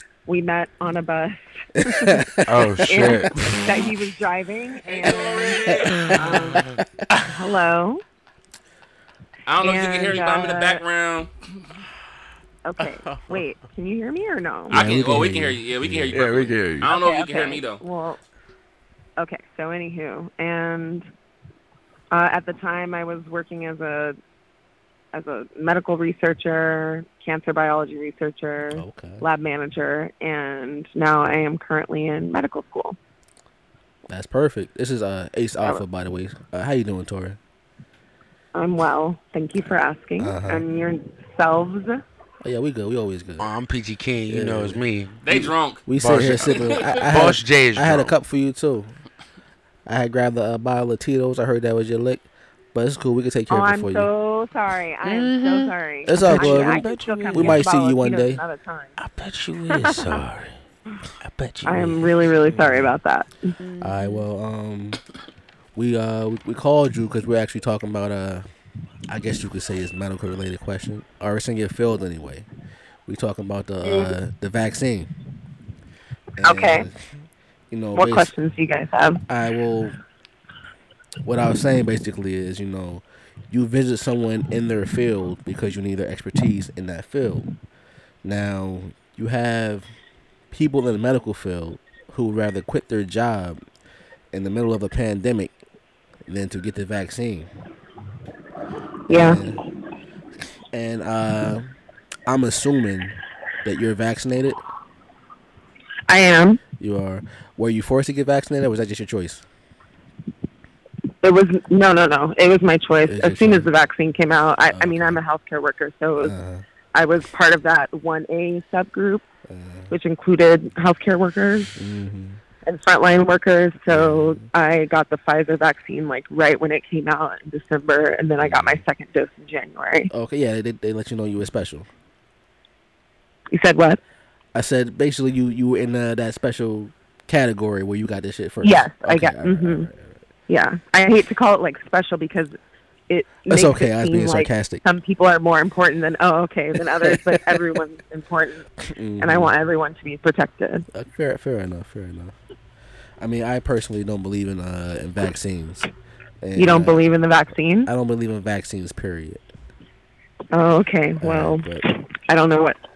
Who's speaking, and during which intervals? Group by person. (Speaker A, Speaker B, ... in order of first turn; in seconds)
Speaker A: 0.3-1.3, 3.1-6.6, 7.3-8.0, 9.7-10.8, 12.7-14.7, 16.9-18.2, 19.2-21.1, 22.1-24.1, 25.1-28.7, 29.2-33.0, 38.5-42.0, 53.5-58.9, 59.7-60.1, 61.7-63.5, 76.5-76.8, 78.0-79.2, 106.1-106.6, 111.2-116.3, 117.0-117.4, 121.0-121.7, 123.8-126.6, 127.2-127.5, 128.4-130.1, 133.5-134.0, 138.6-139.9, 140.5-142.6, 143.1-148.7, 149.2-150.8, 156.6-157.9, 160.6-161.7, 162.5-162.7
Speaker B: 1.9-3.3, 14.7-16.2, 28.7-29.3, 34.1-37.4, 40.2-40.6, 42.4-43.5, 44.3-44.8, 45.9-48.9, 49.9-54.1, 56.1-58.4, 62.4-62.9, 63.8-65.0, 65.8-68.5, 69.1-72.5, 73.1-75.1, 76.4-77.0, 77.7-78.3, 79.3-80.0, 81.2-87.5, 88.2-89.9, 90.5-93.6, 94.3-95.5, 96.3-97.5, 99.1-99.6, 100.7-101.7, 102.3-104.6, 106.8-109.4, 113.1-113.7, 114.7-115.2, 116.2-116.7, 119.5-119.9, 121.8-122.4, 123.9-124.5, 128.4-128.8, 130.1-131.9, 134.5-140.2, 143.5-144.8, 148.8-149.6, 150.9-152.3, 153.2-155.9, 156.4-157.1, 157.8-159.4, 161.2-161.8
Speaker C: 2.5-3.5, 6.1-6.8, 12.8-13.4, 16.1-16.9, 43.4-48.1, 55.0-57.6, 59.0-60.6, 61.2-62.2, 63.6-64.2
Speaker D: 4.8-6.4, 9.5-11.3, 14.7-17.8, 45.2-45.8, 46.4-47.0